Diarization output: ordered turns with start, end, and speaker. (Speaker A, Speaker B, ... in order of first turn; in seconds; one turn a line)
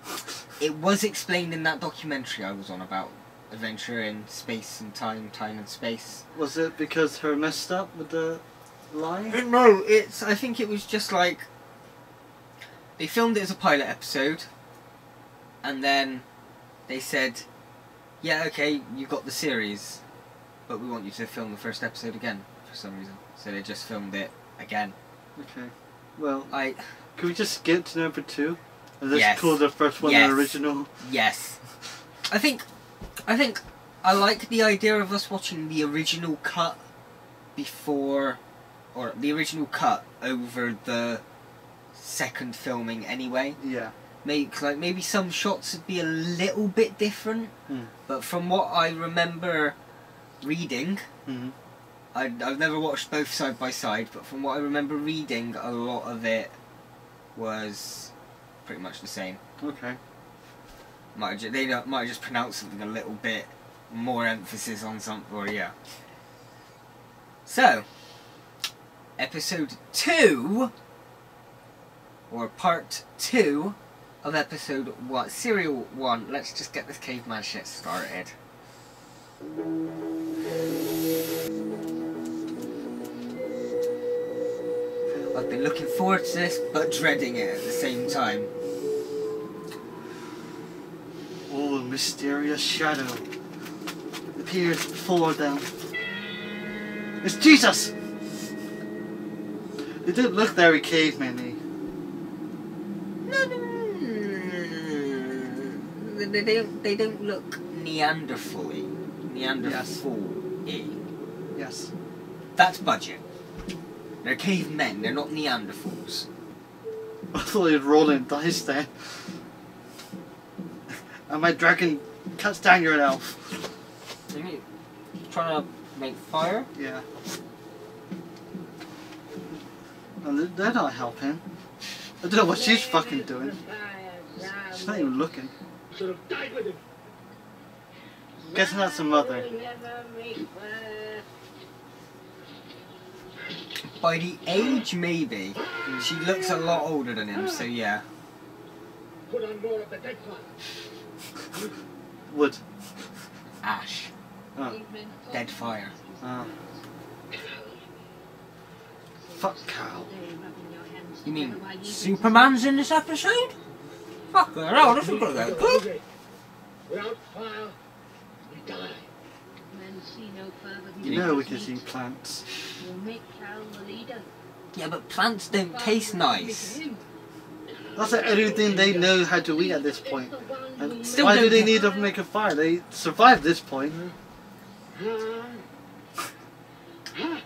Speaker A: 0.6-6.2
Speaker B: 6.3-9.4
Speaker A: 9.3-11.4
Speaker A: 13.0-14.5
Speaker A: 15.6-16.2
Speaker A: 16.9-17.4
Speaker A: 18.2-20.0
Speaker A: 20.7-24.9
Speaker B: 25.4-26.5
Speaker A: 26.5-26.9
Speaker B: 27.1-30.9
Speaker A: 29.1-31.6
Speaker A: 32.3-32.6
Speaker A: 33.3-36.8
Speaker A: 37.5-38.4
Speaker A: 38.9-41.2
Speaker A: 41.9-43.6
Speaker B: 43.6-43.9
Speaker A: 44.2-47.5
Speaker A: 48.1-49.8
Speaker A: 50.4-51.0
Speaker B: 51.2-51.5
Speaker A: 52.1-56.5
Speaker A: 57.3-58.1
Speaker A: 58.6-59.4
Speaker B: 59.6-60.0
Speaker A: 61.1-65.7
Speaker A: 67.5-67.8
Speaker A: 69.2-70.7
Speaker A: 72.3-78.3
Speaker A: 85.3-88.5
Speaker B: 91.5-93.2
Speaker B: 94.3-95.7
Speaker B: 97.2-97.9
Speaker B: 100.0-101.6
Speaker A: 103.2-111.0
Speaker B: 109.6-110.0
Speaker B: 111.5-111.9
Speaker A: 112.5-113.2
Speaker A: 114.2-116.3
Speaker B: 117.3-119.3
Speaker B: 121.3-123.7
Speaker A: 124.3-124.6
Speaker A: 125.3-126.7
Speaker B: 126.7-127.0
Speaker B: 130.2-131.4
Speaker B: 132.2-133.6
Speaker C: 132.8-135.1
Speaker B: 134.5-135.5
Speaker D: 135.9-136.8
Speaker C: 138.4-141.2
Speaker B: 138.5-139.5
Speaker A: 144.0-148.0
Speaker B: 145.8-146.1
Speaker D: 149.3-150.5
Speaker B: 152.3-152.6
Speaker A: 153.6-154.1
Speaker C: 154.7-156.5
Speaker A: 155.3-155.9
Speaker B: 156.2-156.5
Speaker B: 159.3-160.2
Speaker C: 159.4-162.6
Speaker A: 161.2-163.5
Speaker A: 164.3-165.8
Speaker D: 164.8-166.0
Speaker D: 166.9-167.8
Speaker D: 168.5-169.1
Speaker C: 169.7-171.8
Speaker B: 171.0-172.4
Speaker A: 171.0-171.3
Speaker C: 172.8-174.3
Speaker A: 174.7-176.8
Speaker C: 175.7-177.0
Speaker B: 177.9-184.0
Speaker D: 178.0-179.1
Speaker C: 179.2-181.9
Speaker A: 181.1-181.8
Speaker D: 184.9-185.6